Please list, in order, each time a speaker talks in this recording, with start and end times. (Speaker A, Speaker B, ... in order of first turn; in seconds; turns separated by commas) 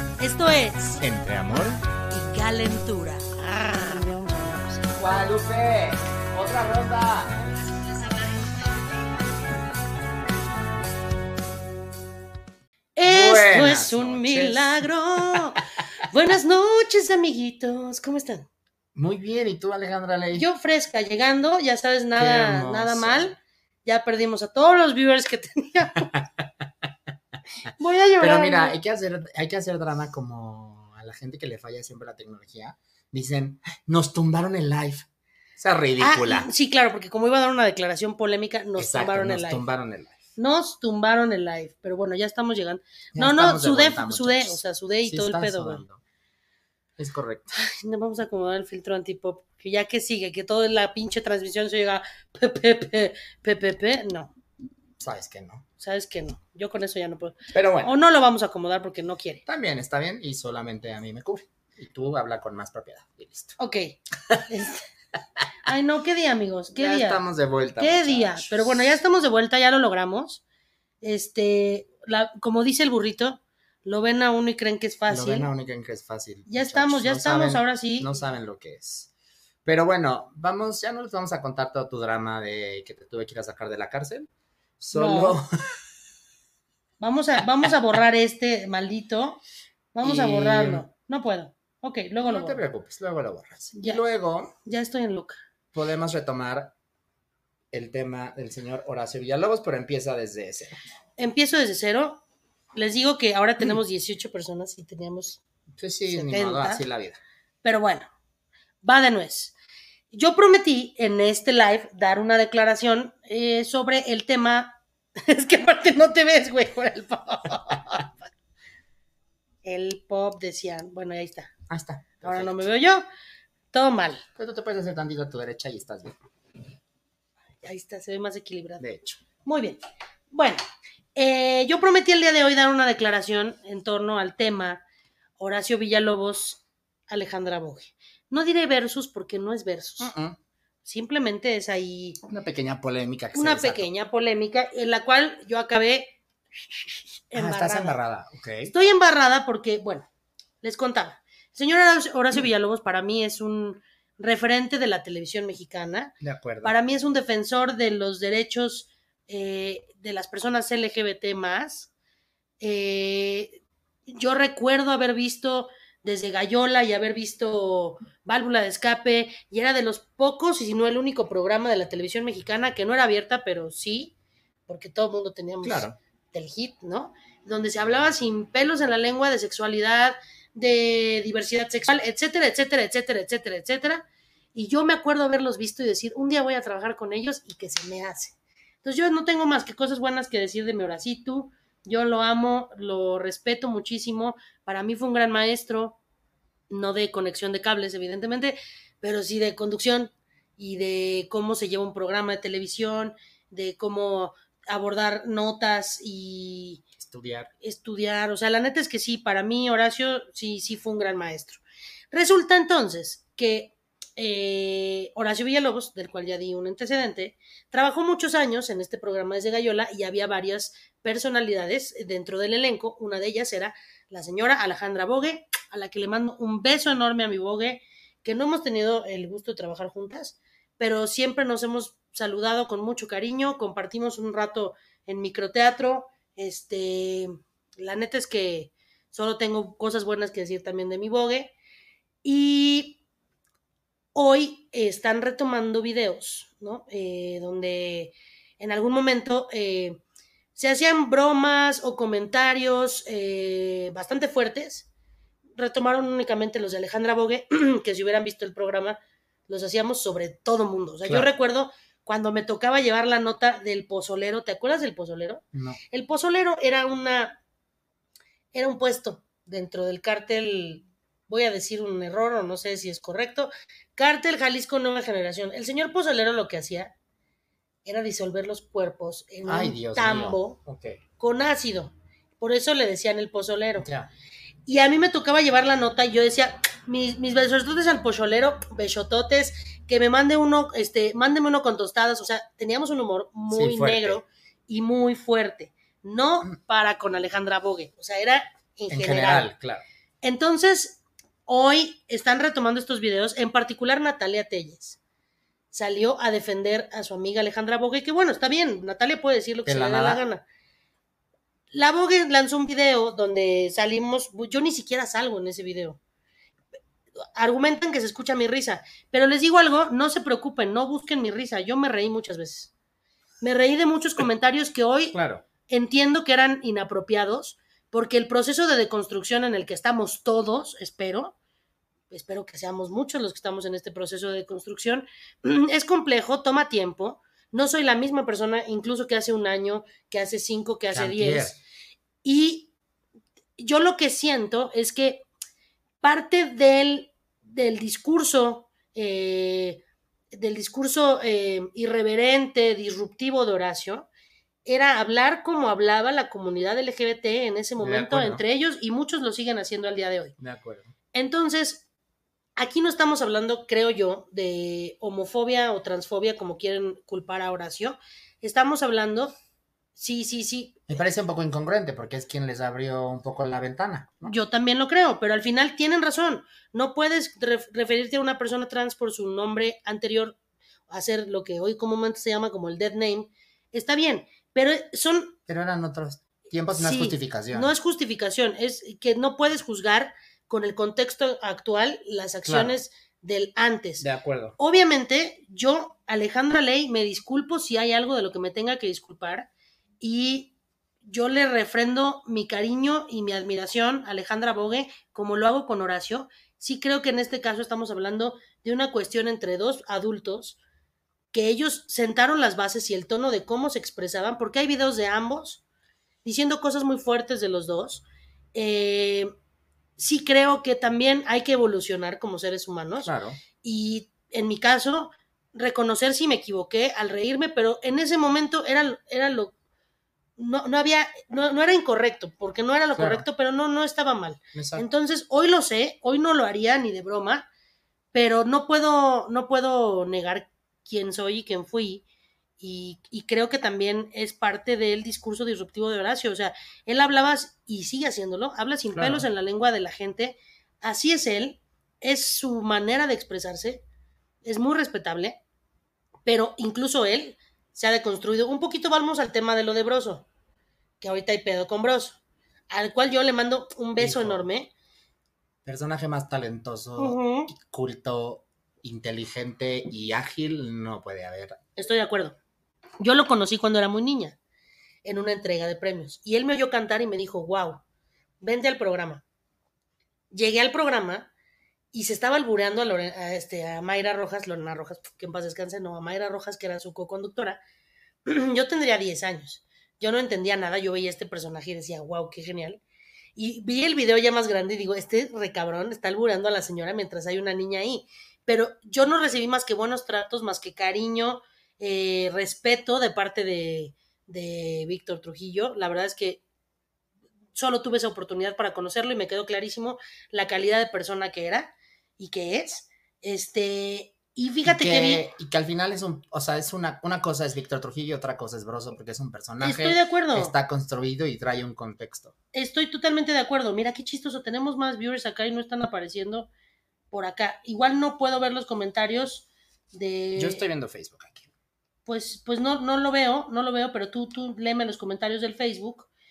Speaker A: 0.2-1.0, Speaker B: 0.9-1.8, Speaker A: 2.1-5.0, Speaker B: 5.0-7.4, Speaker A: 7.8-8.8, Speaker A: 13.0-18.5, Speaker B: 13.1-15.4, Speaker B: 18.9-20.5, Speaker A: 20.3-26.1, Speaker B: 22.2-23.3, Speaker B: 26.1-26.6, Speaker A: 27.7-28.8, Speaker B: 28.2-35.1, Speaker B: 35.6-36.5, Speaker A: 36.0-39.6, Speaker B: 38.8-40.2, Speaker A: 40.4-45.8, Speaker B: 43.1-46.0, Speaker B: 47.0-47.5, Speaker A: 47.5-54.3, Speaker B: 55.0-55.6, Speaker A: 55.8-59.4, Speaker B: 57.5-57.9, Speaker B: 59.5-63.6, Speaker A: 63.6-64.8, Speaker A: 65.7-67.2, Speaker B: 66.8-69.0, Speaker A: 67.8-70.4, Speaker A: 71.0-75.5, Speaker B: 75.1-79.1, Speaker A: 76.5-78.1, Speaker B: 79.7-84.3, Speaker B: 84.8-85.5, Speaker A: 84.9-85.4, Speaker A: 87.0-89.4, Speaker A: 89.9-92.6, Speaker B: 90.0-90.9, Speaker B: 92.2-94.5, Speaker A: 93.8-94.0, Speaker A: 94.6-95.3, Speaker B: 95.7-96.7, Speaker B: 97.7-100.8, Speaker A: 101.2-102.2, Speaker A: 102.8-105.4, Speaker B: 105.8-107.2, Speaker A: 106.1-106.8, Speaker A: 107.6-108.1, Speaker A: 108.8-109.5, Speaker A: 110.1-118.3, Speaker A: 119.6-121.5, Speaker B: 121.7-122.7, Speaker A: 122.2-123.0, Speaker A: 123.7-124.2, Speaker B: 124.4-126.2, Speaker A: 127.6-128.8, Speaker B: 128.8-129.2, Speaker A: 129.4-130.6, Speaker A: 131.2-134.8, Speaker A: 135.4-140.1, Speaker B: 140.0-140.4, Speaker A: 140.8-142.2, Speaker B: 142.3-143.9, Speaker A: 143.3-146.2, Speaker A: 146.7-148.0, Speaker B: 147.3-148.7, Speaker A: 148.7-150.1, Speaker A: 150.6-161.9, Speaker B: 156.2-156.8, Speaker A: 162.6-174.1, Speaker A: 174.7-196.0, Speaker B: 175.6-176.0, Speaker A: 196.7-206.8, Speaker B: 207.0-207.5, Speaker A: 207.6-241.5, Speaker A: 242.2-243.0, Speaker A: 244.2-250.0, Speaker A: 250.6-254.9, Speaker A: 255.6-267.4, Speaker B: 265.5-265.8, Speaker A: 268.5-276.9, Speaker A: 277.9-280.6, Speaker B: 279.4-281.0, Speaker A: 281.2-283.9, Speaker B: 283.8-284.1, Speaker A: 284.7-299.5, Speaker B: 293.5-294.2, Speaker B: 298.9-299.8, Speaker A: 300.2-305.0, Speaker A: 305.7-310.4, Speaker B: 309.7-310.2, Speaker A: 311.7-316.0, Speaker A: 317.4-322.7, Speaker A: 323.4-325.2, Speaker B: 325.1-325.4, Speaker A: 325.7-331.4, Speaker A: 332.1-341.6, Speaker B: 340.9-341.6, Speaker A: 342.2-342.7, Speaker A: 343.6-345.3, Speaker A: 346.0-349.8, Speaker A: 350.3-354.1, Speaker A: 354.7-360.4, Speaker B: 357.8-358.4, Speaker B: 360.4-360.9, Speaker A: 361.1-361.9, Speaker A: 362.6-369.3, Speaker A: 370.0-371.0, Speaker B: 370.9-374.4, Speaker A: 374.2-380.4, Speaker A: 380.9-385.4, Speaker B: 385.5-387.7, Speaker A: 386.8-394.1, Speaker B: 392.4-392.8, Speaker B: 394.0-394.6, Speaker A: 394.6-399.5, Speaker A: 400.0-400.5, Speaker A: 401.1-410.6, Speaker A: 411.3-415.6, Speaker A: 416.2-419.3, Speaker A: 420.0-429.5, Speaker B: 423.0-423.4, Speaker A: 430.4-437.5, Speaker B: 433.0-433.3, Speaker B: 434.5-434.9, Speaker A: 438.1-442.1, Speaker A: 442.6-453.8, Speaker B: 448.9-449.3, Speaker A: 454.4-455.4, Speaker A: 456.3-460.3, Speaker A: 461.0-462.2, Speaker A: 462.7-464.7, Speaker B: 464.0-464.5, Speaker B: 465.6-471.6, Speaker A: 467.0-467.5, Speaker A: 471.8-472.4, Speaker A: 473.0-474.4, Speaker A: 475.1-477.8, Speaker A: 478.4-479.2, Speaker A: 480.3-481.3, Speaker A: 481.9-487.6, Speaker A: 488.3-492.8, Speaker A: 493.4-506.4, Speaker A: 507.6-515.3, Speaker B: 514.7-522.3, Speaker A: 519.6-520.5, Speaker A: 522.5-526.5, Speaker A: 527.1-530.6, Speaker B: 530.4-531.5, Speaker A: 532.1-536.1